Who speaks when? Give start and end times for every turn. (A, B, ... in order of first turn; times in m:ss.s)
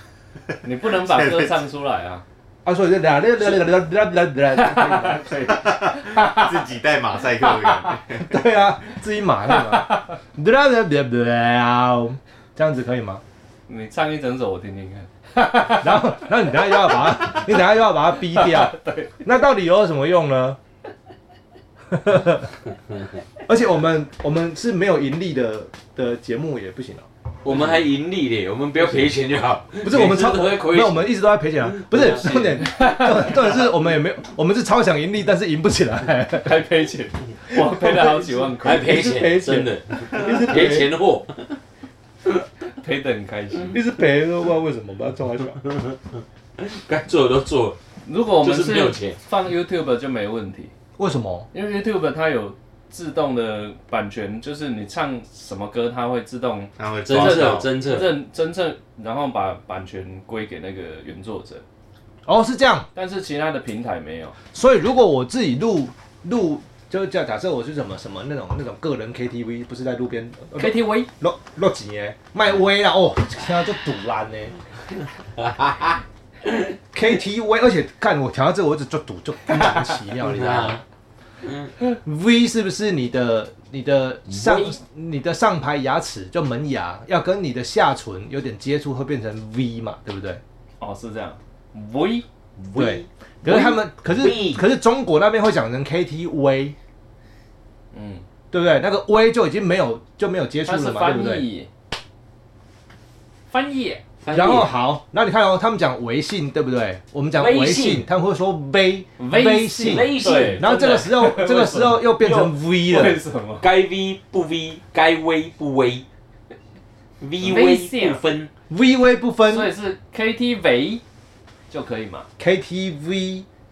0:00.6-0:02.2 A
0:00.8-0:01.6 B
0:02.6-0:05.4 C
0:04.5-0:06.5 A
0:05.4-0:08.4 B
0:08.2-0:13.2 C
0:09.7-0:10.0 A
0:13.7-0:16.2 A
0:15.7-0:20.6 C
0:17.0-0:17.5 A
0:18.2-0:19.1 A
0:21.9-0:22.5 C
0:23.5-0:27.1 C
0:27.4-0:31.2 D
0:29.8-0:36.6 C
0:31.7-0:32.6 D
0:32.6-0:33.7 A
0:36.4-0:39.2 A
0:37.5-0:40.9 C
0:38.6-0:41.6 D
0:42.8-0:43.8 A
0:43.7-0:45.6 C
0:45.6-0:46.0 D
0:46.6-0:47.8 D
0:48.0-0:50.7 A
0:48.4-0:49.2 D
0:51.0-0:51.5 C
0:51.5-1:01.6 A
0:56.8-0:57.7 B
0:57.0-0:58.2 D
1:02.3-1:02.9 C
1:03.0-1:04.4 A
1:04.5-1:14.6 C
1:10.6-1:11.1 A
1:15.4-1:16.8 D
1:16.9-1:20.8 C
1:20.2-1:20.8 D
1:21.4-1:21.7 D
1:22.0-1:30.4 C
1:24.3-1:24.8 D
1:30.8-1:32.2 A
1:32.6-1:34.6 D
1:32.8-1:36.8 C
1:37.9-1:38.2 A
1:38.5-1:41.4 C
1:40.7-1:41.7 A
1:43.5-1:44.0 A
1:44.2-1:44.7 D
1:44.3-1:53.2 C
1:47.4-1:48.1 D
1:49.2-1:52.1 A
1:49.8-1:50.7 D
1:52.2-1:52.5 D
1:52.8-1:53.7 A
1:53.6-1:56.1 D
1:57.2-1:58.5 D
1:57.4-1:58.2 A
1:58.7-1:59.7 C
1:59.5-2:01.0 A
2:01.7-2:02.3 A
2:02.4-2:03.5 C